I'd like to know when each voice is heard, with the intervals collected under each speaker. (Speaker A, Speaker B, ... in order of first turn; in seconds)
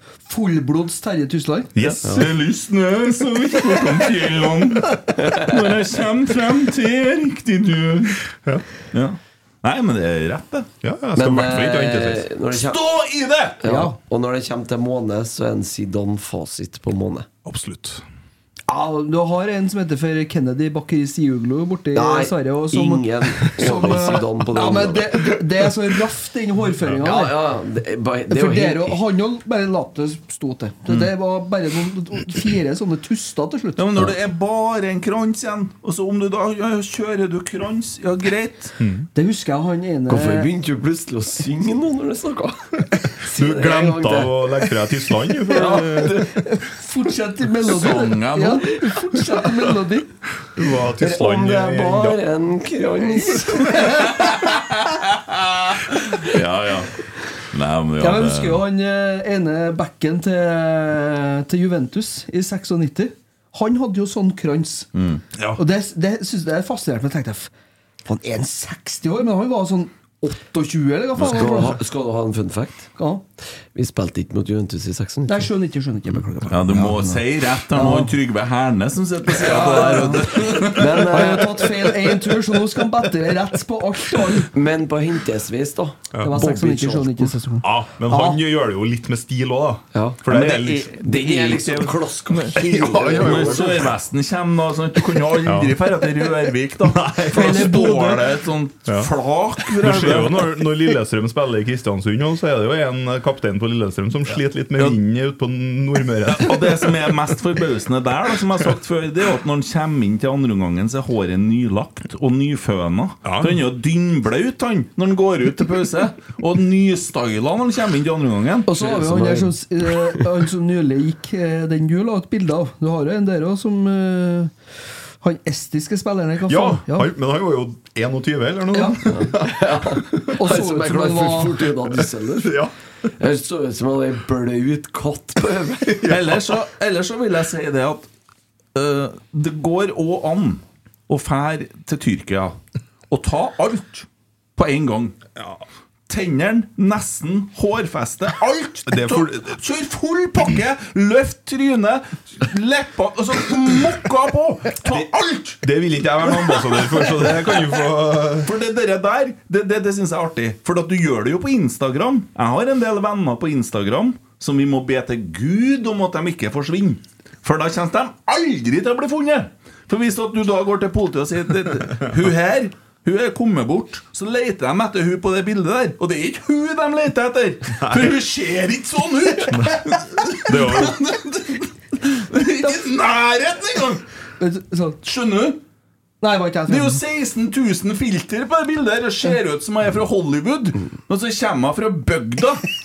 Speaker A: 0.3-1.7, 13.7-14.0, 18.7-27.4, 28.3-33.9, 39.1-40.5, 45.5-50.1, 53.6-54.2, 58.0-64.9, 65.5-67.5, 68.1-71.8, 73.0-73.2, 75.3-77.2, 77.7-78.1, 79.3-84.5, 86.2-88.4, 118.7-124.5, 125.2-127.1, 128.7-129.1, 130.4-131.6, 184.4-185.0, 186.2-187.0
Speaker B: 1.8-2.3, 10.8-12.3, 17.5-18.0, 38.8-39.1, 43.2-46.3, 50.6-52.2, 87.6-93.9, 95.4-95.8, 96.9-98.2, 99.7-106.9, 113.2-113.6, 126.5-130.0, 132.4-132.7, 148.9-149.5, 155.6-158.5, 177.8-178.1, 179.5-181.0
Speaker C: 1.8-8.2, 8.9-10.7, 12.5-13.6, 33.8-38.8, 45.9-46.1, 47.6-48.8, 53.9-57.0, 57.5-58.6, 64.9-65.2, 76.5-81.3, 90.3-91.7, 93.2-100.6, 106.3-118.7, 136.1-138.1, 138.8-142.6, 143.1-145.2, 146.1-155.6, 156.2-157.5, 158.4-184.1, 185.0-185.6, 186.7-192.6
Speaker D: 5.2-5.5, 11.2-12.8, 13.6-17.3, 21.9-25.3, 27.0-29.0, 40.1-44.6, 51.0-54.1, 71.2-72.9, 73.7-75.5, 80.6-81.7, 84.5-87.3, 89.9-90.2, 91.0-93.9, 118.8-119.5, 129.1-132.6, 133.2-136.1